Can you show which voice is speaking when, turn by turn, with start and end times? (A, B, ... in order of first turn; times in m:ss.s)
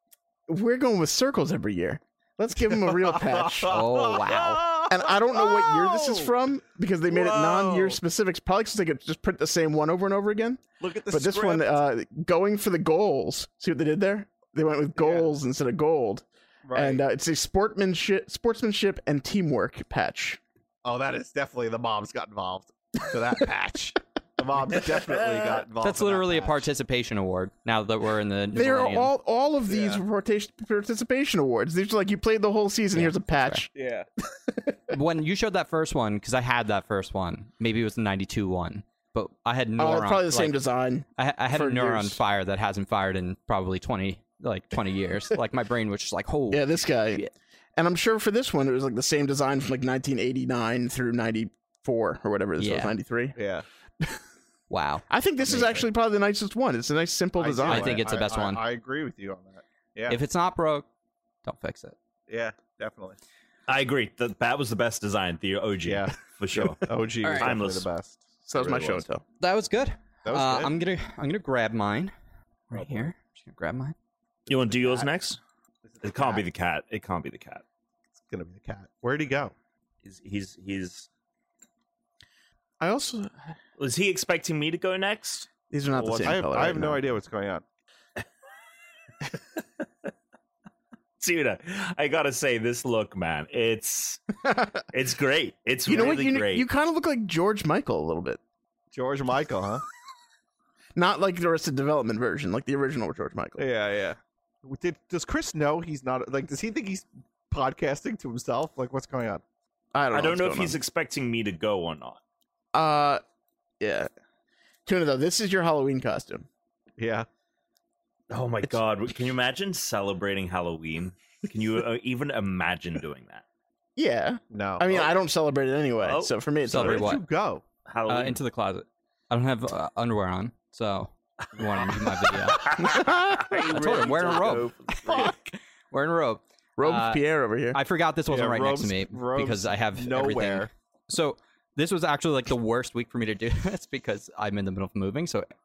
0:00.5-0:03.7 A
0:02.6-0:06.3 B
0:03.7-0:04.6 C
0:04.9-0:20.4 A
0:07.1-0:08.0 D
0:07.3-0:07.9 B
0:10.8-0:11.8 B
0:15.0-0:15.3 B
0:16.6-0:17.0 B
0:20.8-0:26.7 B
0:25.8-0:29.1 C
0:28.5-0:33.7 A
0:29.7-0:30.0 B
0:32.9-0:33.6 C
0:33.7-0:34.0 B
0:34.5-0:34.9 A
0:34.9-0:40.6 C
0:39.8-0:42.2 A
0:41.2-0:47.3 C
0:46.5-0:53.4 A
0:52.6-0:52.9 C
0:53.4-0:53.6 B
0:54.7-0:55.6 C
0:55.1-0:58.0 A
0:55.4-0:55.8 B
0:57.4-1:00.2 B
0:57.7-0:58.6 C
1:00.1-1:00.8 C
1:01.4-1:01.9 C
1:02.3-1:03.2 B
1:03.7-1:07.9 D
1:05.8-1:09.0 B
1:07.2-1:07.5 A
1:08.4-1:09.2 A
1:09.4-1:12.1 C
1:10.2-1:10.7 B
1:12.7-1:13.9 C
1:12.7-1:13.1 B
1:14.5-1:15.4 D
1:14.5-1:15.1 B
1:15.8-1:16.4 B
1:16.0-1:17.6 D
1:18.2-1:19.5 B
1:20.0-1:21.1 D
1:22.8-1:23.5 A
1:23.8-1:26.4 D
1:25.7-1:27.0 A
1:26.2-1:27.6 B
1:29.3-1:29.6 D
1:31.2-1:36.6 D
1:35.8-1:38.4 A
1:38.9-1:39.8 B
1:41.0-1:43.7 A
1:43.6-1:49.4 B
1:49.9-1:50.8 A
1:50.1-1:52.2 D
1:52.7-1:53.2 A
1:53.8-1:54.1 A
1:54.8-1:56.5 A
1:57.0-1:57.3 B
1:58.3-2:03.4 D
2:04.0-2:07.1 A
2:04.5-2:05.1 B
2:06.0-2:06.3 D
2:06.7-2:07.2 C
2:06.7-2:07.6 B
2:07.8-2:08.4 D
2:08.1-2:25.5 C
2:11.7-2:15.3 D
2:12.8-2:13.6 A
2:16.8-2:17.8 A
2:18.3-2:20.7 B